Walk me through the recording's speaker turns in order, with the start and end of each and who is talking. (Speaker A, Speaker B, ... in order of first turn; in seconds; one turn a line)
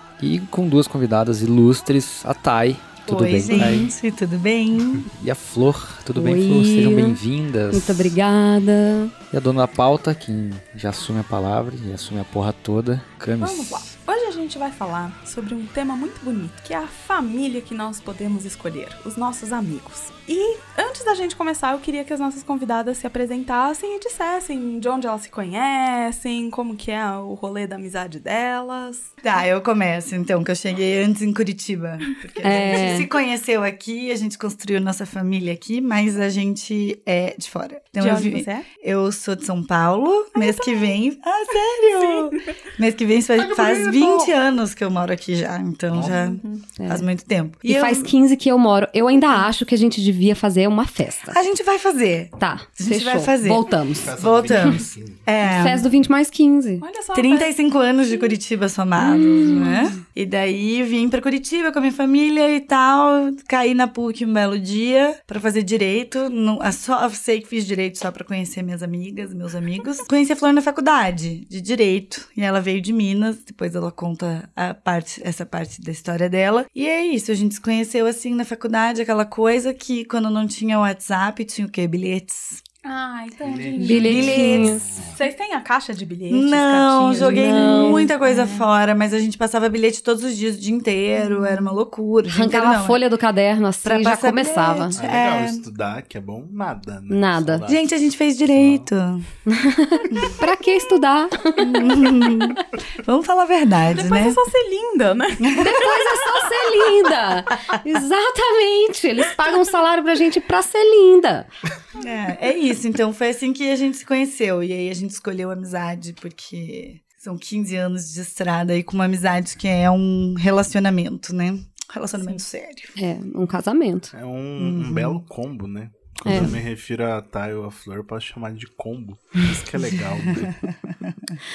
Speaker A: 0.2-3.9
Speaker B: 3.1-5.1
Speaker A: 5.1-8.2
Speaker C: 6.2-7.2
Speaker C: 7.7-9.2
Speaker A: 9.3-13.9
Speaker D: 13.4-29.1
Speaker B: 29.2-48.1
Speaker D: 32.2-33.0
Speaker C: 32.4-33.1
Speaker D: 38.0-38.7
Speaker D: 40.4-40.9
Speaker D: 41.8-42.5
Speaker E: 43.4-44.3
Speaker E: 45.9-46.2
Speaker D: 46.1-46.6
Speaker C: 46.8-47.1
Speaker C: 47.6-51.4
Speaker B: 51.3-55.9
Speaker C: 52.4-54.7
Speaker E: 53.9-55.3
Speaker C: 55.4-56.9
Speaker D: 56.8-57.6
Speaker B: 57.1-82.6
Speaker C: 59.0-59.9
Speaker D: 82.8-84.5
Speaker E: 83.4-85.2
Speaker C: 83.8-84.9
Speaker B: 83.8-84.8
Speaker D: 85.1-88.7
Speaker B: 86.3-93.0
Speaker C: 87.2-88.1
Speaker D: 91.2-91.8
Speaker C: 92.3-95.0
Speaker B: 93.8-95.6
Speaker E: 95.0-97.9
Speaker C: 97.1-97.7
Speaker B: 97.7-99.3
Speaker E: 98.5-98.9
Speaker C: 99.5-102.6
Speaker D: 101.7-102.2
Speaker B: 101.7-104.4
Speaker D: 103.9-106.5
Speaker B: 105.5-105.9
Speaker C: 105.6-111.5
Speaker B: 112.0-123.0
Speaker C: 123.0-124.1
Speaker E: 124.1-130.7
Speaker B: 124.6-125.2
Speaker C: 126.3-126.6
Speaker B: 130.4-131.4